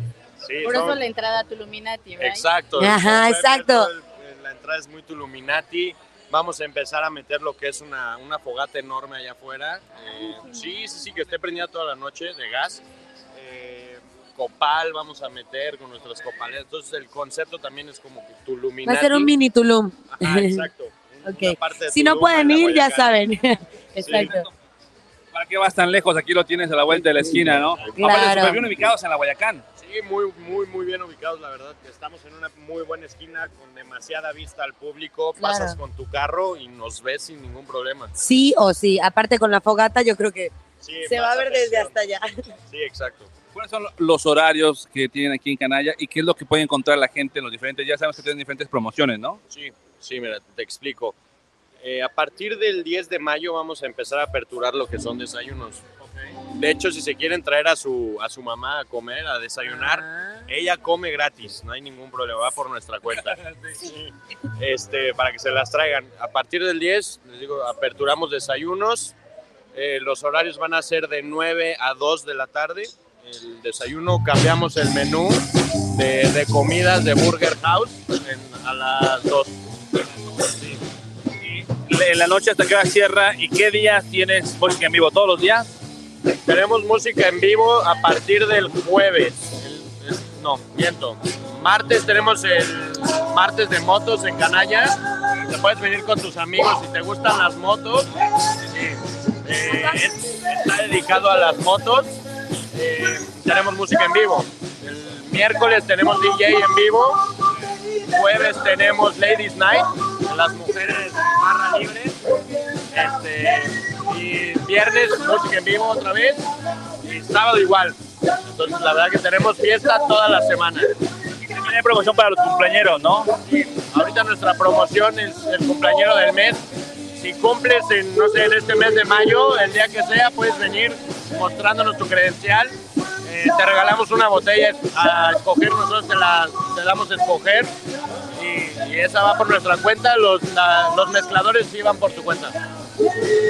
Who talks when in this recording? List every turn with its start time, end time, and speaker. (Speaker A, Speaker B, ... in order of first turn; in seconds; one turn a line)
Speaker A: 0.4-1.0
Speaker B: 0.6-2.5
Speaker A: 2.2-12.8
Speaker C: 2.8-3.9
Speaker B: 10.2-10.7
Speaker A: 13.3-19.3
Speaker C: 18.8-20.7
Speaker A: 20.1-23.2
Speaker C: 21.2-24.5
Speaker A: 24.0-24.3
Speaker D: 24.1-24.5
Speaker D: 25.3-29.6
Speaker A: 27.8-28.2
Speaker C: 27.9-28.7
Speaker A: 29.8-38.1
Speaker C: 35.4-35.8
Speaker C: 38.1-40.5
Speaker A: 40.8-42.0
Speaker C: 41.0-42.3
Speaker A: 42.7-43.3
Speaker D: 43.5-49.4
Speaker A: 49.5-51.1
Speaker A: 51.8-55.8
Speaker A: 56.5-69.1
Speaker C: 59.9-60.4
Speaker D: 63.5-63.8
Speaker A: 69.7-79.6
Speaker A: 80.3-80.8
Speaker D: 81.4-85.7
Speaker A: 86.4-98.1
Speaker A: 98.7-102.2
Speaker C: 99.6-100.1
Speaker A: 102.7-107.3
Speaker A: 108.1-112.2
Speaker A: 112.9-120.9
Speaker D: 121.5-123.3
Speaker A: 123.5-137.7
Speaker A: 138.3-142.6